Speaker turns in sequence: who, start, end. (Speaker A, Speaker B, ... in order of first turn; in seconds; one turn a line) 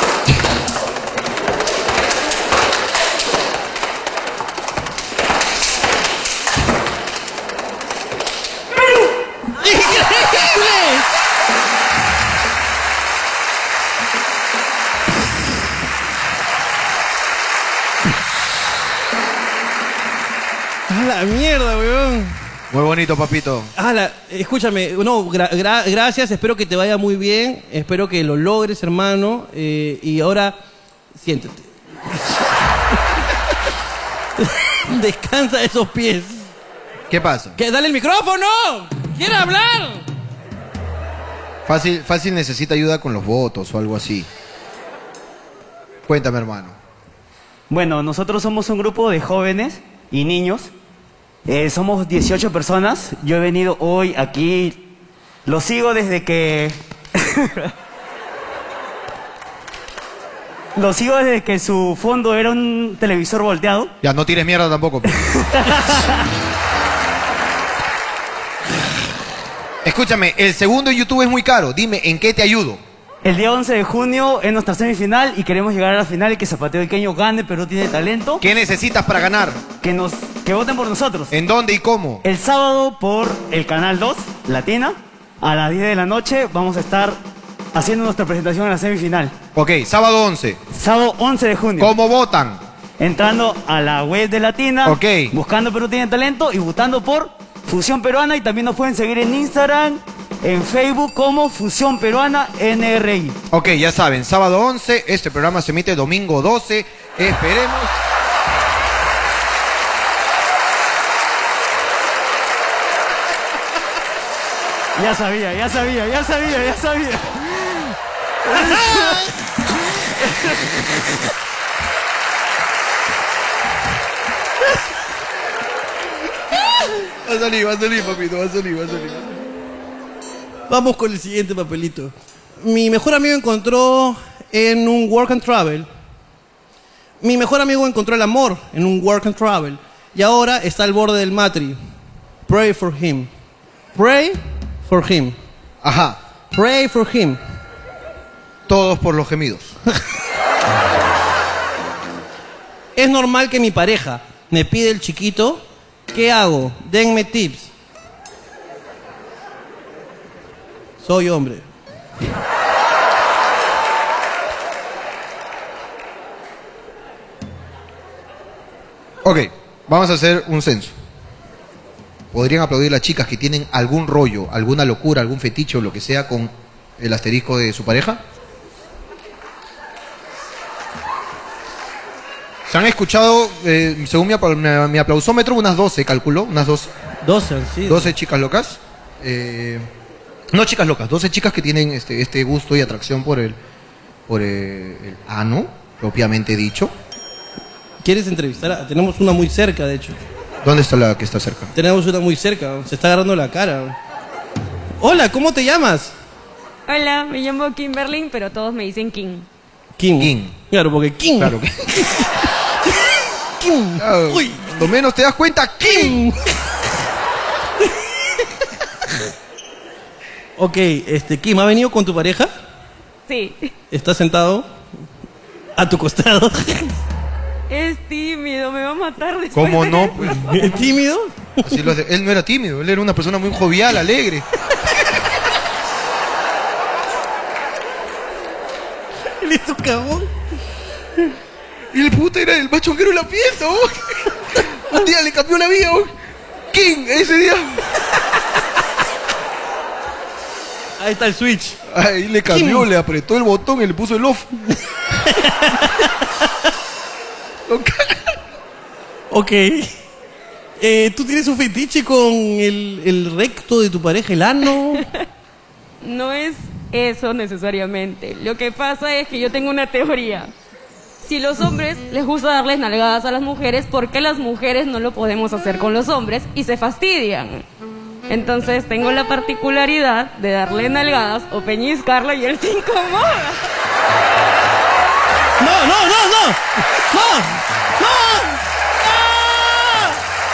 Speaker A: 9.6-11.1
Speaker A: 20.9-22.4
Speaker B: 22.7-23.7
Speaker A: 23.8-30.6
Speaker A: 31.1-33.0
Speaker A: 34.4-36.5
Speaker B: 37.1-37.6
Speaker A: 37.6-40.0
Speaker B: 41.6-44.3
Speaker B: 46.1-46.8
Speaker C: 47.7-50.7
Speaker C: 51.5-54.8
Speaker C: 55.5-57.7
Speaker C: 60.7-63.9
Speaker B: 64.0-65.3
Speaker C: 65.1-66.3
Speaker B: 69.8-72.8
Speaker C: 73.2-78.4
Speaker B: 78.4-79.6
Speaker C: 79.8-81.3
Speaker B: 81.3-82.2
Speaker C: 82.2-87.2
Speaker C: 87.7-89.3
Speaker B: 89.5-90.6
Speaker C: 90.7-91.9
Speaker B: 91.8-92.6
Speaker C: 93.0-103.4
Speaker B: 94.8-95.3
Speaker B: 103.5-108.0
Speaker C: 114.9-117.9
Speaker C: 118.5-119.3
Speaker A: 118.5-119.3
Speaker B: 127.0-129.5
Speaker A: 130.7-135.9
Speaker A: 137.2-141.8
Speaker A: 142.5-143.3
Speaker A: 143.9-145.4
Speaker B: 145.8-146.2
Speaker A: 146.5-147.4
Speaker B: 148.7-149.8
Speaker A: 152.9-157.7
Speaker A: 161.0-161.7
Speaker B: 169.2-170.9
Speaker B: 172.3-178.2
Speaker B: 182.7-186.9
Speaker A: 187.2-188.1
Speaker B: 187.8-189.9
Speaker B: 190.5-193.6
Speaker B: 194.3-196.9
Speaker A: 198.0-200.2
Speaker B: 200.6-201.7
Speaker A: 201.7-204.0
Speaker A: 205.0-206.1
Speaker D: 206.9-209.5
Speaker A: 210.0-211.6
Speaker B: 210.2-210.6
Speaker B: 211.4-212.2
Speaker A: 213.6-214.8
Speaker B: 214.0-216.2
Speaker A: 215.8-216.5
Speaker A: 217.8-218.4
Speaker A: 220.6-222.5
Speaker D: 223.3-223.7
Speaker A: 223.9-224.7
Speaker A: 225.8-226.9
Speaker D: 227.7-230.9
Speaker B: 229.5-230.4
Speaker A: 230.2-231.8
Speaker B: 231.6-234.4
Speaker A: 239.3-240.3
Speaker B: 241.9-246.1
Speaker A: 244.5-245.0
Speaker B: 246.7-248.1
Speaker A: 251.0-251.8
Speaker B: 251.9-254.5
Speaker A: 252.5-252.8
Speaker A: 255.2-256.5
Speaker B: 257.7-258.4
Speaker A: 259.3-259.9
Speaker A: 260.8-265.1
Speaker D: 266.0-270.5
Speaker D: 271.2-277.6
Speaker D: 278.3-283.6
Speaker A: 285.6-290.2